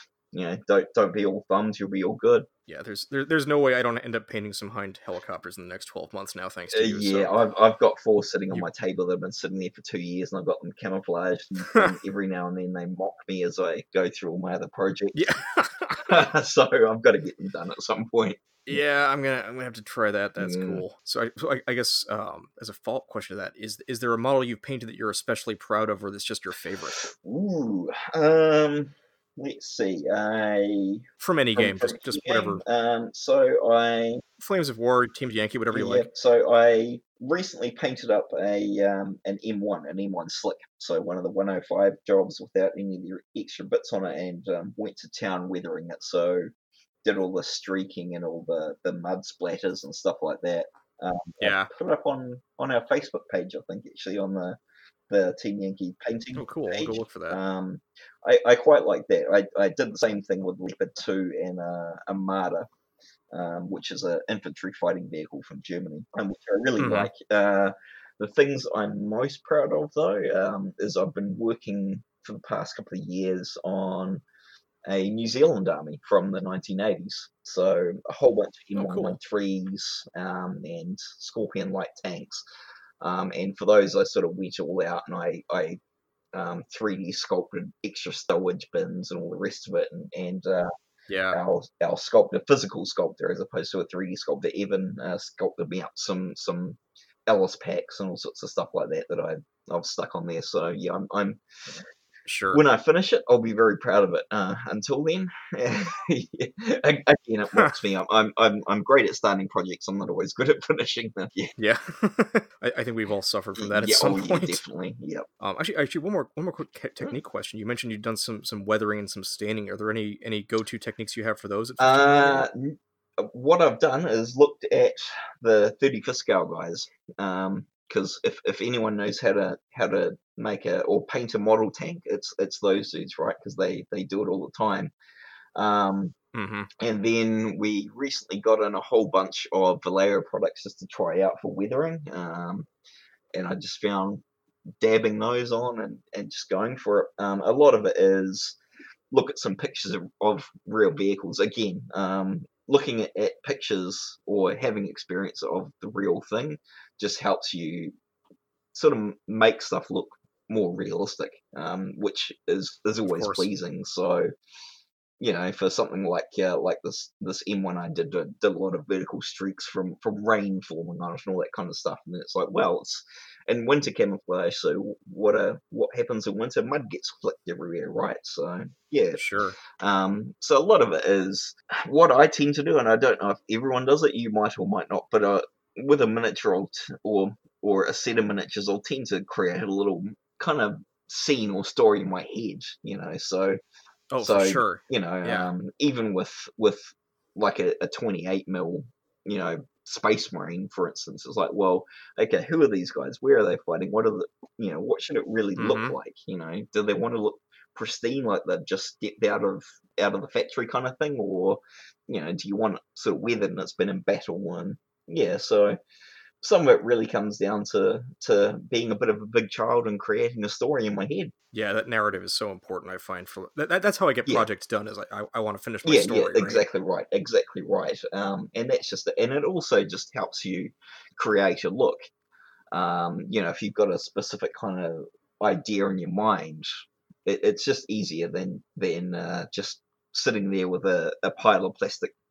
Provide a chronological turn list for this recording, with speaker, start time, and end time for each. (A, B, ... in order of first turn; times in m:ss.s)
0:00.3-0:02.5 A
0:02.7-0:07.3 B
0:06.7-0:15.2 A
0:15.1-0:16.2 B
0:16.1-0:18.4 A
0:18.7-0:27.0 B
0:20.4-0:20.8 A
0:27.0-0:31.0 A
0:31.2-0:32.6 B
0:31.6-0:34.2 A
0:34.4-0:36.1 B
0:35.7-0:46.5 A
0:47.0-0:54.6 A
0:51.4-0:51.7 B
0:55.1-1:02.7 A
0:56.3-0:57.4 B
1:03.3-1:14.2 A
1:06.8-1:07.1 B
1:14.9-1:22.4 A
1:18.8-1:19.2 B
1:23.0-1:25.8 A
1:26.3-1:30.7 A
1:31.1-1:31.4 B
1:31.3-1:41.8 A
1:42.2-1:42.6 B
1:42.5-1:51.5 A
1:51.6-1:54.6 B
1:53.6-1:55.2 A
1:55.4-2:02.4 B
2:01.8-2:14.9 A
2:15.6-2:16.1 A
2:16.3-2:16.7 B
2:16.8-2:22.7 A
2:23.3-2:24.2 A
2:24.8-2:28.6 A
2:29.1-2:37.9 A
2:38.7-2:44.3 A
2:43.0-2:43.5 B
2:45.2-2:59.2 A
2:59.1-2:59.6 B
2:59.8-3:13.6 A
3:14.1-3:15.5 B
3:14.2-3:35.8 A
3:25.6-3:26.0 B
3:36.4-3:41.3 A
3:41.5-3:46.6 B
3:45.8-3:52.0 A
3:52.7-3:56.7 A
3:57.2-4:02.1 A